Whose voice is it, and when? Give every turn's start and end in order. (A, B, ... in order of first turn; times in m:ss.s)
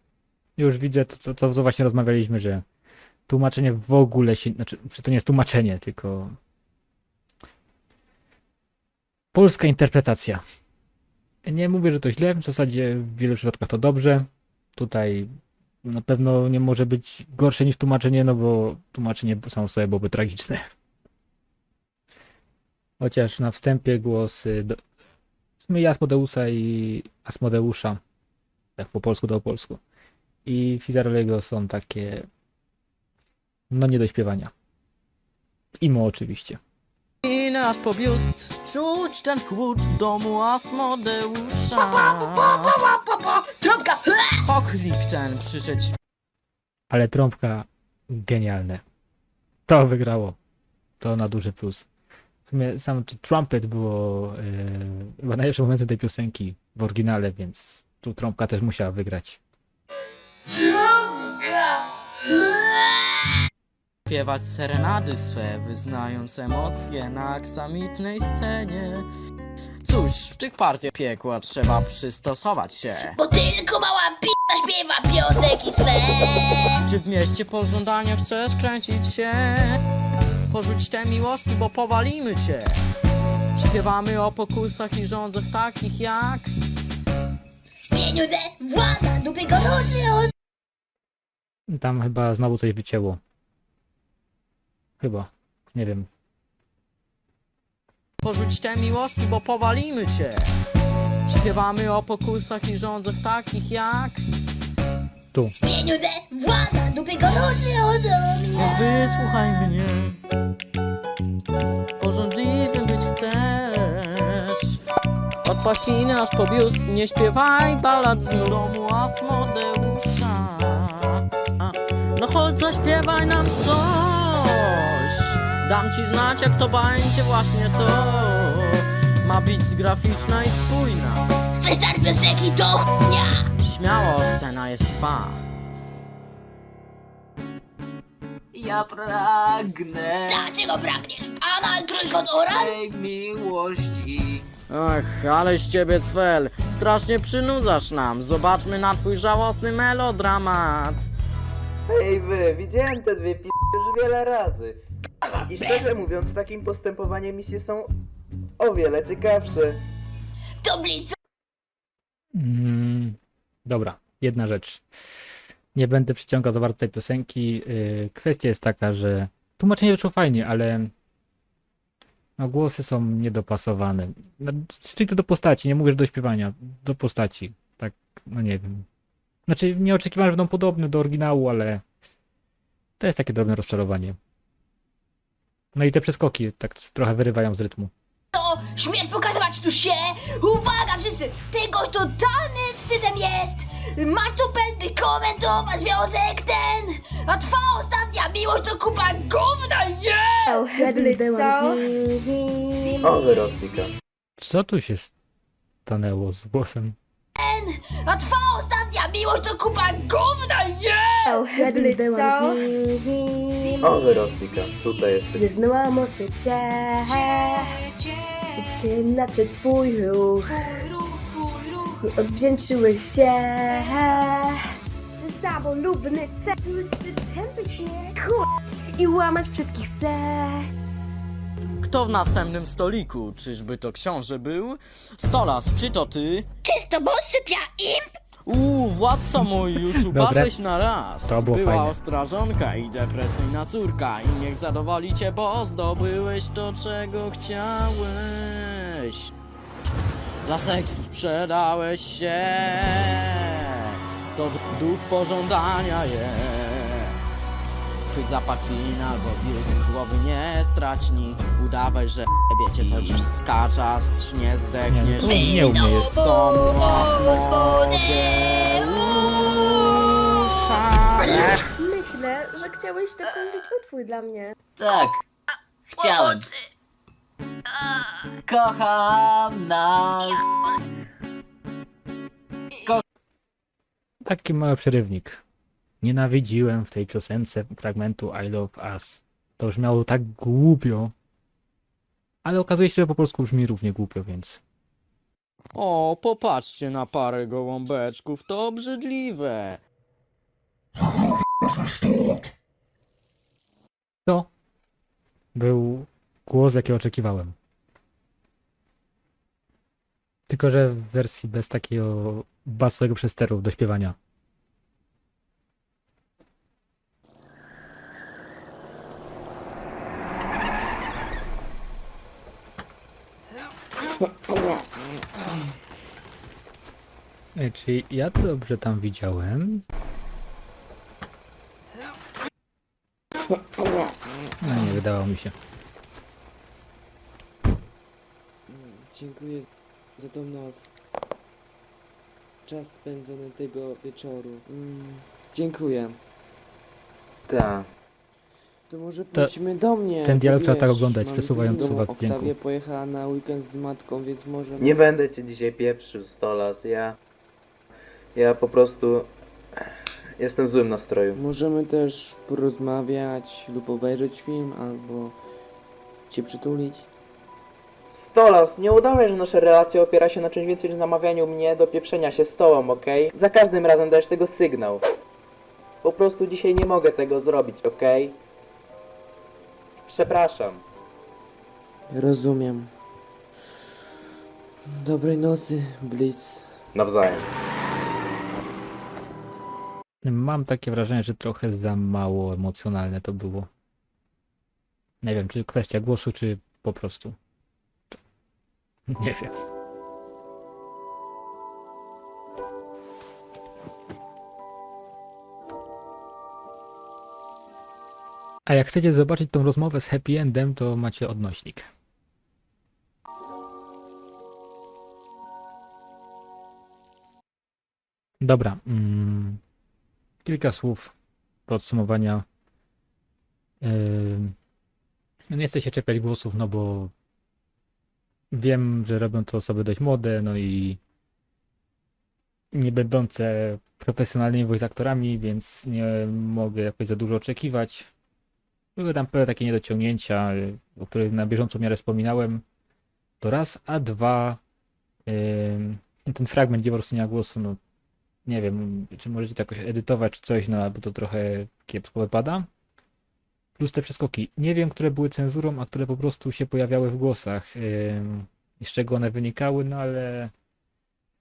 0:00.6-0:02.6 A
0:03.3-0:06.4 A
0:09.3-0:10.4 A
0:11.4-0:15.3 A
0:15.8-0:20.6 A
0:23.0-0:24.8 A
0:25.6-0:28.0 A
0:28.8-0:29.8 A
0:30.4-0:32.3 A
0:33.7-0:34.5 A
0:35.8-0:36.6 A
0:37.2-0:42.8 B
0:41.8-0:44.5 C
0:44.4-0:46.0 B
0:46.9-0:48.8 A
0:49.7-0:50.4 A
0:51.0-0:51.9 A
0:52.4-0:59.4 A
1:04.1-1:09.0 B
1:09.8-1:13.2 B
1:13.2-1:16.8 C
1:16.8-1:19.8 B
1:20.5-1:22.8 B
1:23.6-1:26.5 B
1:27.9-1:30.3 C
1:31.7-1:33.2 A
1:35.0-1:36.1 A
1:38.2-1:40.5 B
1:41.3-1:44.2 B
1:45.6-1:48.8 C
1:48.5-1:50.2 B
1:52.0-1:54.6 B
1:55.4-2:11.2 B
2:11.6-2:13.4 C
2:13.6-2:15.4 B
2:18.5-2:20.5 D
2:20.3-2:22.8 C
2:22.5-2:24.5 D
2:24.7-2:31.1 B
2:31.9-2:37.9 E
2:38.6-2:39.8 E
2:40.6-2:41.2 C
2:42.4-2:44.8 A
2:45.8-2:50.9 A
2:52.4-2:58.8 A
2:59.5-3:01.8 A
3:03.0-3:04.2 A
3:05.7-3:07.9 A
3:08.3-3:20.6 C
3:20.5-3:23.0 F
3:23.0-3:23.9 E
3:24.4-3:25.1 A
3:25.9-3:27.0 A
3:27.4-3:31.4 C
3:31.3-3:33.8 F
3:33.8-3:35.4 E
3:35.4-3:37.8 F
3:38.6-3:40.6 F
3:41.9-3:50.7 F
3:51.8-3:56.5 B
3:56.6-3:58.1 C
3:58.5-4:09.3 B
4:00.1-4:00.5 A
4:01.2-4:02.0 A
4:10.5-4:13.7 B
4:14.4-4:17.2 B
4:18.1-4:31.7 B
4:24.9-4:26.1 A
4:25.2-4:28.9 C
4:31.3-4:34.6 F
4:34.8-4:35.2 D
4:36.0-4:36.5 D
4:36.0-4:36.5 C
4:38.5-4:40.7 D
4:44.3-4:45.4 A
4:46.0-4:51.1 A
4:52.4-4:54.6 A
4:55.7-4:59.8 B
5:05.6-5:07.6 A
5:10.5-5:14.2 A
5:27.6-5:29.8 A
5:34.6-5:35.6 A
5:38.7-5:39.7 G
5:40.2-5:40.9 G
5:42.7-5:46.2 G
5:47.5-5:47.9 E
5:48.9-5:55.0 G
5:50.2-5:52.6 A
5:54.8-5:57.2 E
5:58.4-5:59.3 E
6:00.4-6:01.4 E
6:01.3-6:05.4 G
6:06.3-6:07.1 G
6:08.1-6:15.0 E
6:16.0-6:18.4 E
6:20.1-6:20.8 E
6:22.1-6:22.9 G
6:25.0-6:26.8 G
6:27.0-6:27.5 E
6:30.2-6:33.7 A
6:35.2-6:37.4 A
6:39.1-6:39.5 A
6:48.7-6:51.9 A
6:58.4-6:59.6 A
7:00.4-7:01.1 A
7:01.7-7:02.4 A
7:03.8-7:04.6 A
7:05.5-7:07.1 A
7:08.5-7:11.0 A
7:12.7-7:18.1 A
7:19.0-7:22.6 A
7:23.4-7:24.6 A
7:25.3-7:27.8 A
7:28.5-7:32.7 A
7:33.8-7:40.5 A